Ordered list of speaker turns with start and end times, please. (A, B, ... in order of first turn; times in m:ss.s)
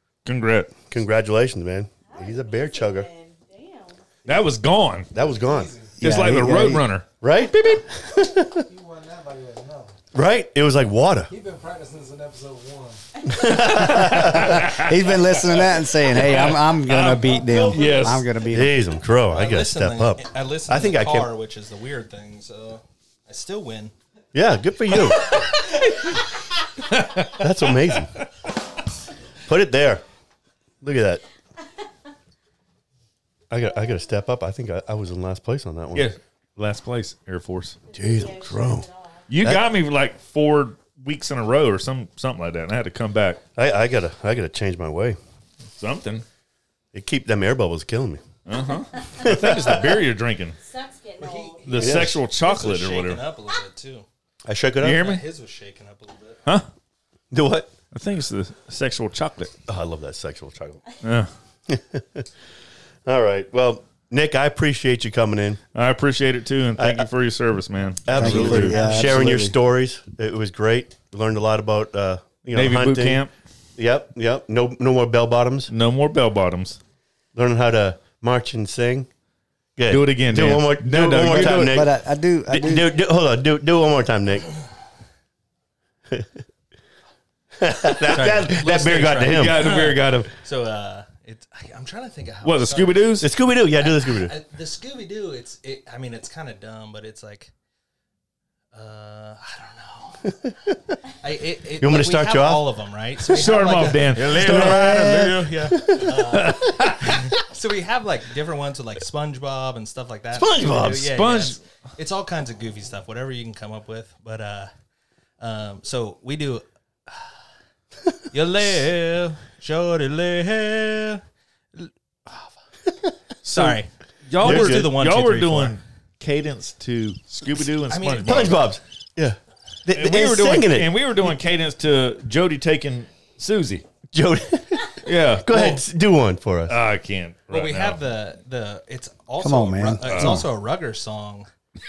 0:00.2-0:00.7 A
0:00.9-0:03.1 B
0:02.1-0:04.0 C
0:04.2-0:05.1 A
0:05.1-0:05.7 B
0:05.1-0:06.1 D
0:06.0-0:06.9 E
0:06.0-0:07.1 A
0:07.2-0:08.7 B
0:08.5-0:09.9 D
0:10.1-0:11.3 B
0:11.3-0:13.6 D
0:13.3-0:14.7 B
0:13.6-0:18.8 E
0:14.0-0:15.5 A
0:16.1-0:18.4 A
0:18.4-0:21.3 B
0:19.3-0:23.9 F
0:24.3-0:25.3 B
0:25.2-0:26.0 A
0:26.8-0:27.5 A
0:27.2-0:28.2 B
0:29.4-0:30.0 B
0:30.8-0:31.2 B
0:33.5-0:36.1 B
0:35.9-0:37.8 A
0:37.9-0:39.2 C
0:37.9-0:38.9 B
0:39.3-0:43.4 A
0:43.6-0:45.2 B
0:45.8-0:46.2 A
0:46.9-0:48.2 B
0:48.4-0:50.6 A
0:49.1-0:50.0 B
0:50.6-0:51.9 C
0:51.2-0:54.0 F
0:51.6-0:53.2 A
0:51.7-0:52.2 B
0:54.4-0:55.1 B
0:54.8-0:55.2 A
0:54.9-0:56.4 F
0:57.3-0:57.7 B
0:57.9-0:59.5 A
0:59.7-1:00.8 B
1:01.0-1:01.3 A
1:01.7-1:02.3 B
1:03.0-1:05.6 B
1:05.7-1:09.2 A
1:06.8-1:07.1 B
1:08.0-1:13.2 B
1:08.1-1:09.6 E
1:12.5-1:13.3 A
1:13.8-1:15.7 B
1:15.7-1:16.8 A
1:17.3-1:19.1 B
1:19.8-1:22.0 B
1:19.9-1:21.9 A
1:21.2-1:22.8 E
1:22.5-1:24.5 B
1:26.1-1:26.4 B
1:27.6-1:29.8 B
1:28.0-1:33.1 F
1:29.2-1:30.3 A
1:32.4-1:33.3 A
1:33.2-1:34.3 B
1:33.7-1:37.5 F
1:38.7-1:54.7 F
1:41.8-1:42.7 B
1:43.3-1:45.5 A
1:44.2-1:46.7 B
1:46.2-1:47.3 A
1:50.3-1:51.2 B
1:51.0-1:51.6 A
1:55.4-1:57.4 F
1:58.3-2:01.2 F
2:01.7-2:02.6 F
2:03.4-2:08.6 A
2:03.4-2:05.8 F
2:04.4-2:04.9 B
2:07.9-2:08.5 F
2:08.2-2:11.0 B
2:09.9-2:13.8 A
2:14.1-2:16.8 B
2:15.0-2:15.8 A
2:16.7-2:18.0 A
2:17.5-2:21.5 F
2:19.4-2:20.5 E
2:20.0-2:20.4 A